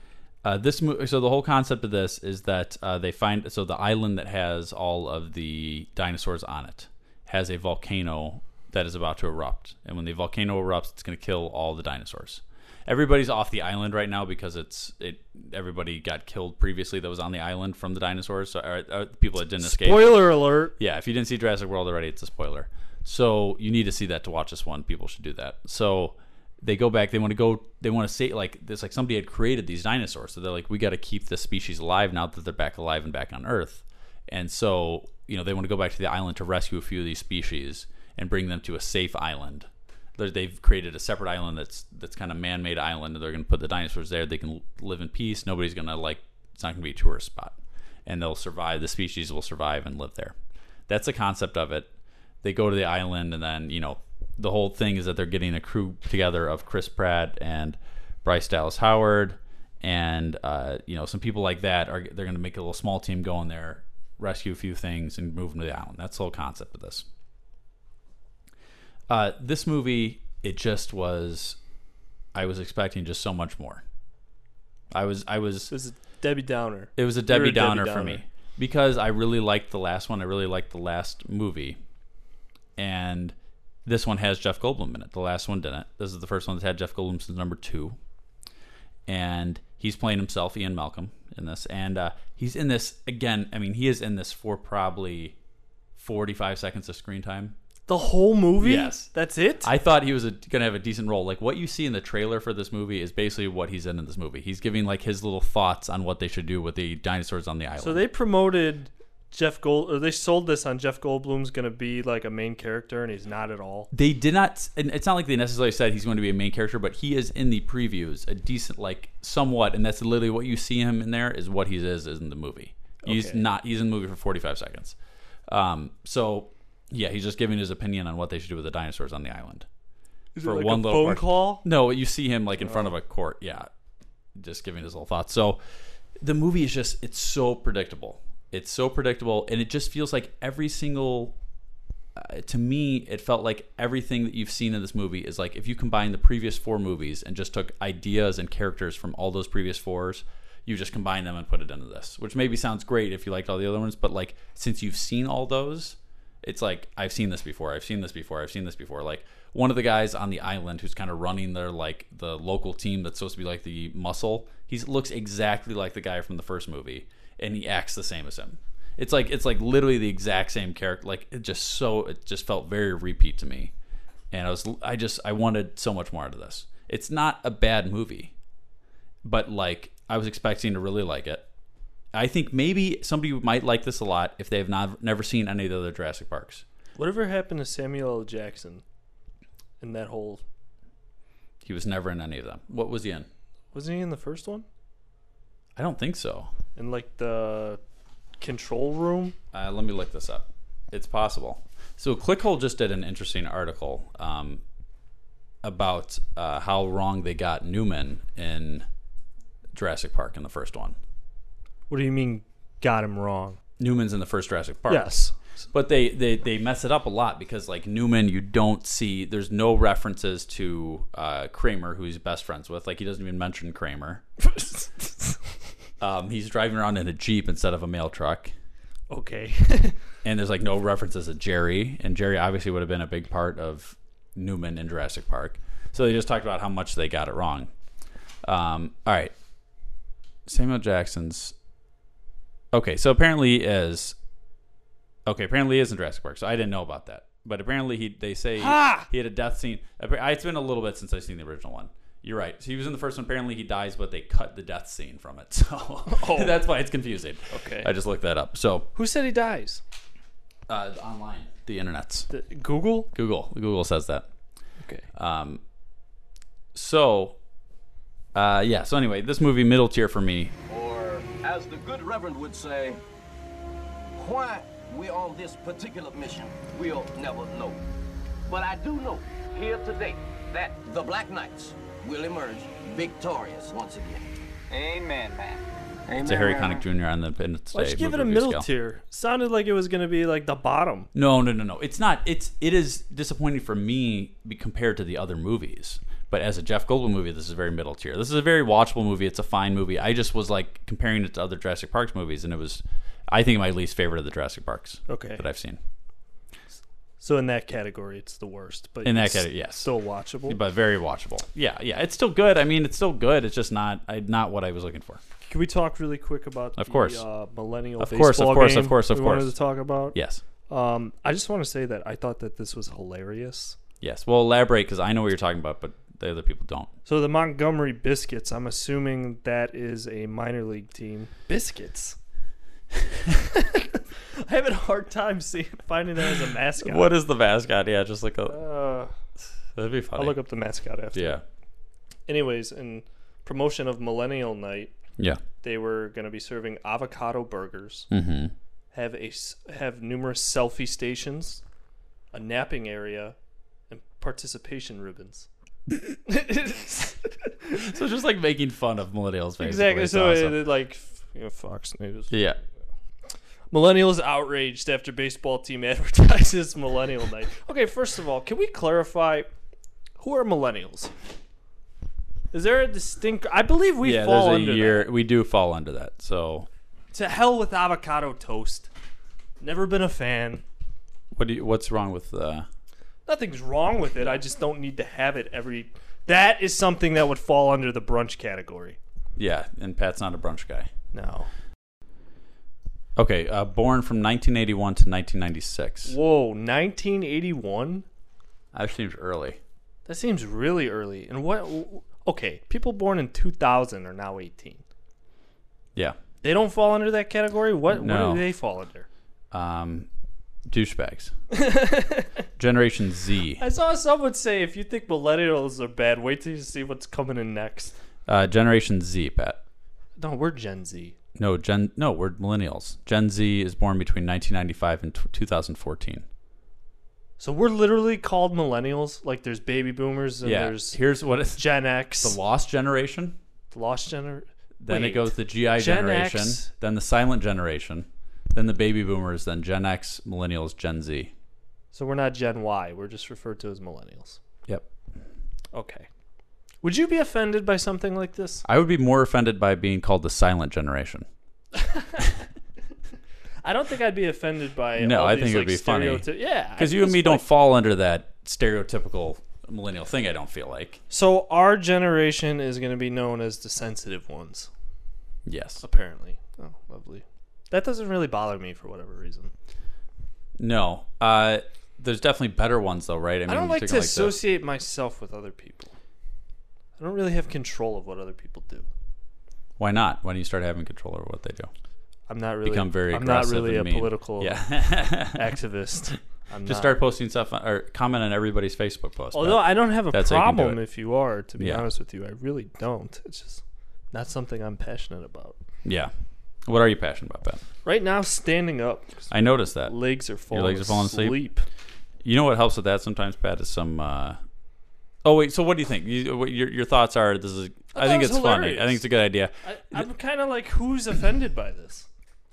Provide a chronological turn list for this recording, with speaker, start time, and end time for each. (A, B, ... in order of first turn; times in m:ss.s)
0:00.4-0:50.4 A
0:19.6-0:20.8 B
0:50.9-0:51.9 A
0:52.4-1:07.1 A
1:09.1-1:11.6 A
1:12.3-1:13.8 A
1:14.9-1:15.7 A
1:15.7-1:18.2 B
1:17.0-1:21.8 A
1:22.8-1:28.0 A
1:29.1-1:35.4 A
1:36.0-1:37.6 A
1:37.9-1:39.7 B
1:38.6-1:39.1 A
1:39.6-1:48.0 A
1:47.8-1:53.9 B
1:53.9-2:05.0 A
2:03.0-2:03.4 B
2:05.5-2:09.7 A
2:10.4-2:11.6 B
2:10.4-2:13.7 A
2:12.6-2:12.9 B
2:14.4-2:15.6 A
2:16.2-2:21.4 A
2:22.1-2:53.7 A
2:54.3-2:58.3 A
2:59.2-3:01.5 A
3:02.1-3:06.6 A
3:07.0-3:08.8 B
3:09.8-3:10.4 B
3:11.6-3:13.3 A
3:13.7-3:14.6 B
3:15.8-3:16.5 A
3:16.8-3:17.8 B
3:18.4-3:19.4 B
3:19.5-3:24.6 A
3:25.6-3:28.8 A
3:29.7-3:31.0 A
3:31.9-3:33.6 B
3:33.8-3:35.1 A
3:34.9-3:35.4 B
3:35.7-3:44.2 A
3:44.5-3:45.4 B
3:46.0-3:48.5 A
3:49.1-3:50.0 B
3:50.2-3:57.7 A
3:58.4-3:59.3 A
4:00.5-4:01.5 A
4:02.7-4:04.2 A
4:05.2-4:18.9 A
4:08.6-4:09.1 B
4:16.1-4:16.6 B
4:17.5-4:17.9 B
4:18.9-4:19.8 B
4:20.7-4:22.3 A
4:22.3-4:23.1 B
4:23.1-4:24.2 A
4:25.1-4:25.6 A
4:26.7-4:27.4 A
4:28.3-4:30.5 A
4:30.7-4:33.0 C
4:34.2-4:37.8 C
4:38.5-4:44.4 C
4:46.2-4:48.7 A
4:47.7-4:51.1 B
4:51.1-5:05.8 A
5:05.1-5:05.4 B
5:07.2-5:10.6 B
5:09.0-5:09.9 A
5:10.5-5:15.2 A
5:15.5-5:20.2 B
5:16.8-5:17.2 A
5:18.0-5:19.5 A
5:20.1-5:20.4 A
5:20.7-5:23.8 B
5:24.0-5:26.9 A
5:27.1-5:32.2 B
5:33.5-5:37.2 B
5:36.8-5:38.6 A
5:38.5-5:39.1 B
5:39.8-5:40.4 A
5:40.2-5:41.4 B
5:41.1-5:41.4 A
5:42.3-5:44.9 B
5:45.6-5:48.1 B
5:48.1-5:48.5 A
5:48.9-5:51.6 B
5:52.3-5:53.4 B
5:53.9-5:55.5 B
5:56.0-5:57.9 B
5:57.8-6:00.7 A
5:59.6-6:02.4 B
6:02.3-6:02.6 A
6:03.7-6:09.5 B
6:10.2-6:11.1 B
6:12.5-6:15.1 B
6:14.0-6:16.7 A
6:17.1-6:18.9 B
6:19.6-6:20.6 B
6:21.3-6:22.7 A
6:23.2-6:29.0 B
6:29.4-6:30.9 A
6:31.1-6:31.5 B
6:33.2-6:36.2 A
6:36.1-6:38.1 B
6:38.7-6:39.6 A
6:40.1-6:44.8 B
6:46.4-6:49.1 B
6:47.9-6:48.5 A
6:49.5-6:50.1 A
6:50.7-6:51.3 A
6:51.5-6:52.3 B
6:52.6-6:53.6 A
6:53.6-6:58.0 B
6:58.3-6:59.6 A
7:00.2-7:01.2 B
7:01.4-7:06.2 A
7:07.4-7:11.0 B
7:10.4-7:13.4 A
7:11.5-7:12.4 B
7:13.7-7:16.7 B
7:14.8-7:21.3 A
7:21.9-7:24.4 B
7:25.7-7:26.1 B
7:26.8-7:28.6 B
7:28.6-7:31.3 A
7:31.8-7:32.3 B
7:33.6-7:37.5 B
7:35.0-7:41.0 A
7:41.1-7:44.7 B
7:45.5-7:45.8 A
7:45.8-7:49.5 B
7:50.6-7:54.4 A
7:53.5-7:55.9 B
7:57.0-7:58.9 B
7:59.8-8:01.7 A
8:02.3-8:07.0 B
8:02.6-8:05.6 A
8:06.6-8:10.8 A
8:09.3-8:15.6 B
8:11.6-8:11.8 A
8:15.8-8:16.1 A
8:16.6-8:17.6 A
8:17.8-8:19.3 B
8:19.3-8:21.4 A
8:19.8-8:21.6 B
8:22.2-8:24.4 A
8:25.2-8:30.1 A
8:27.9-8:29.0 B
8:29.6-8:32.1 B